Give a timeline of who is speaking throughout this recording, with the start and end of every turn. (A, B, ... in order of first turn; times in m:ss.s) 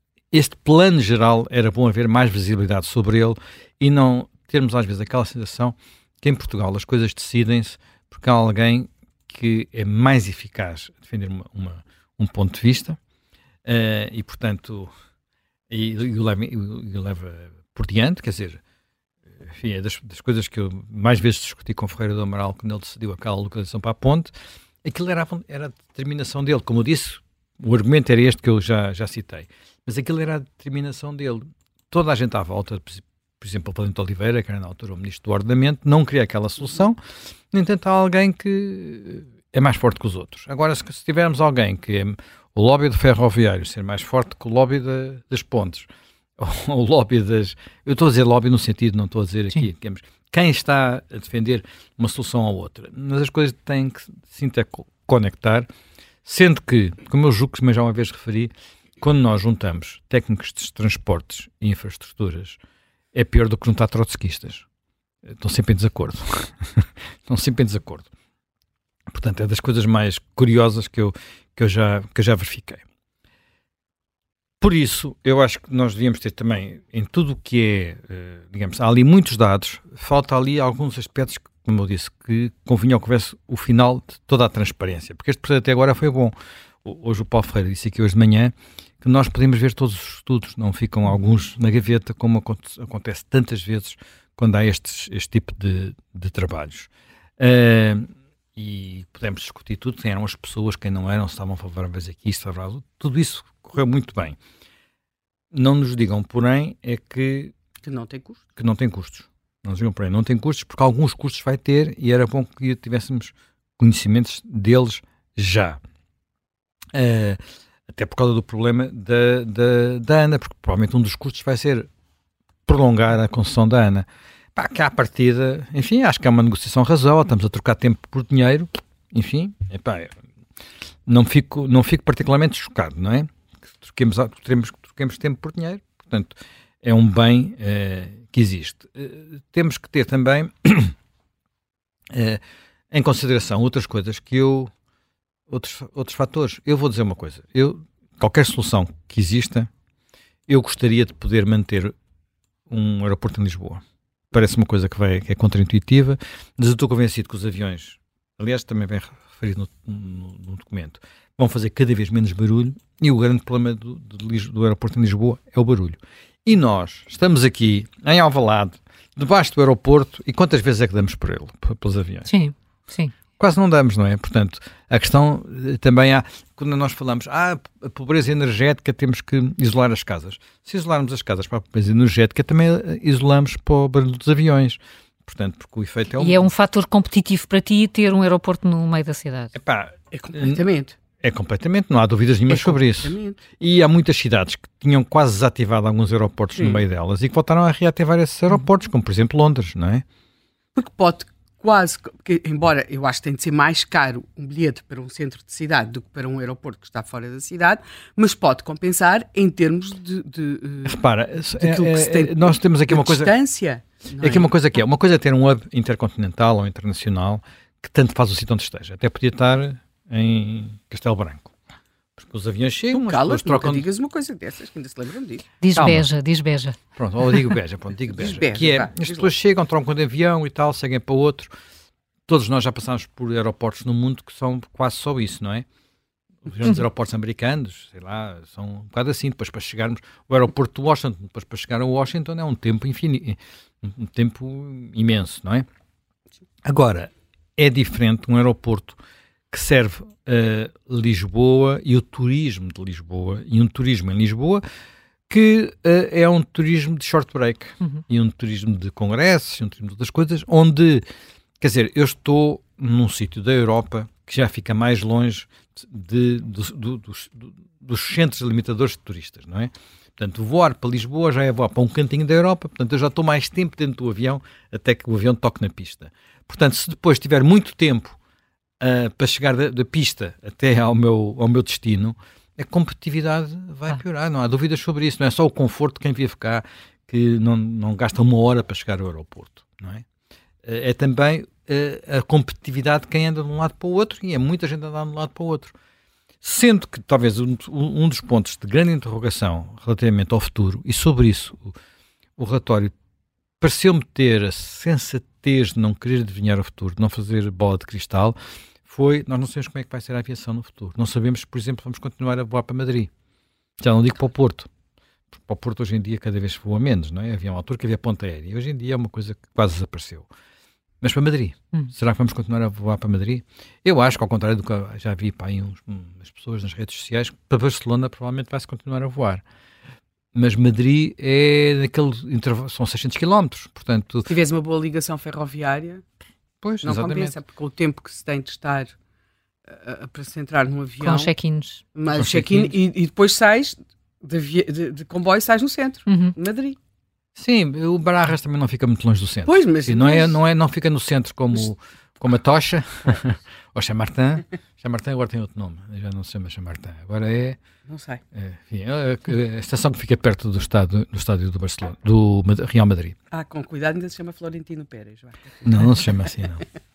0:00.3-0:13.0 A
0:13.6-0:14.9 A
0:15.7-0:18.6 A
0:19.4-0:55.7 A
0:56.2-1:02.6 A
1:03.1-1:04.7 A
1:05.2-1:08.1 A
1:09.1-1:12.8 A
1:14.6-1:44.4 A
1:45.5-1:47.5 A
1:47.8-1:48.4 B
1:48.6-1:55.8 A
1:56.9-2:01.9 A
2:02.7-2:10.1 A
2:11.1-2:21.0 A
2:22.1-2:24.7 A
2:25.5-2:29.7 A
2:30.5-2:32.0 A
2:32.7-2:52.3 A
2:52.3-2:53.1 C
2:53.4-3:06.5 A
3:06.2-3:09.5 C
3:09.6-3:10.6 A
3:10.1-3:11.0 B
3:11.2-3:20.0 A
3:12.5-3:13.4 B
3:16.6-3:16.8 B
3:20.8-3:31.0 B
3:30.8-3:33.3 A
3:31.6-3:34.5 B
3:34.2-3:41.6 A
3:42.2-3:43.9 A
3:42.9-3:45.9 B
3:45.6-3:46.8 C
3:47.0-3:51.5 A
3:48.1-3:49.3 B
3:52.3-3:55.7 A
3:56.5-4:05.7 A
4:06.6-4:09.0 A
4:09.5-4:14.6 A
4:15.3-4:21.1 A
4:21.6-4:38.2 A
4:38.8-4:50.0 A
4:50.6-4:55.7 A
4:56.4-5:01.8 A
5:02.4-5:02.9 A
5:03.6-5:13.1 A
5:13.8-5:14.7 A
5:15.3-5:20.3 A
5:21.0-5:29.4 A
5:30.3-5:34.3 A
5:34.3-5:36.0 B
5:36.6-5:37.4 A
5:36.8-5:39.0 B
5:39.7-5:41.3 B
5:41.0-5:41.8 C
5:41.9-5:46.8 B
5:42.1-5:42.8 A
5:46.1-5:46.4 C
5:47.4-5:57.6 A
5:49.4-5:50.4 B
5:57.9-5:58.2 B
5:58.3-6:03.2 A
6:03.3-6:06.3 B
6:05.6-6:06.6 A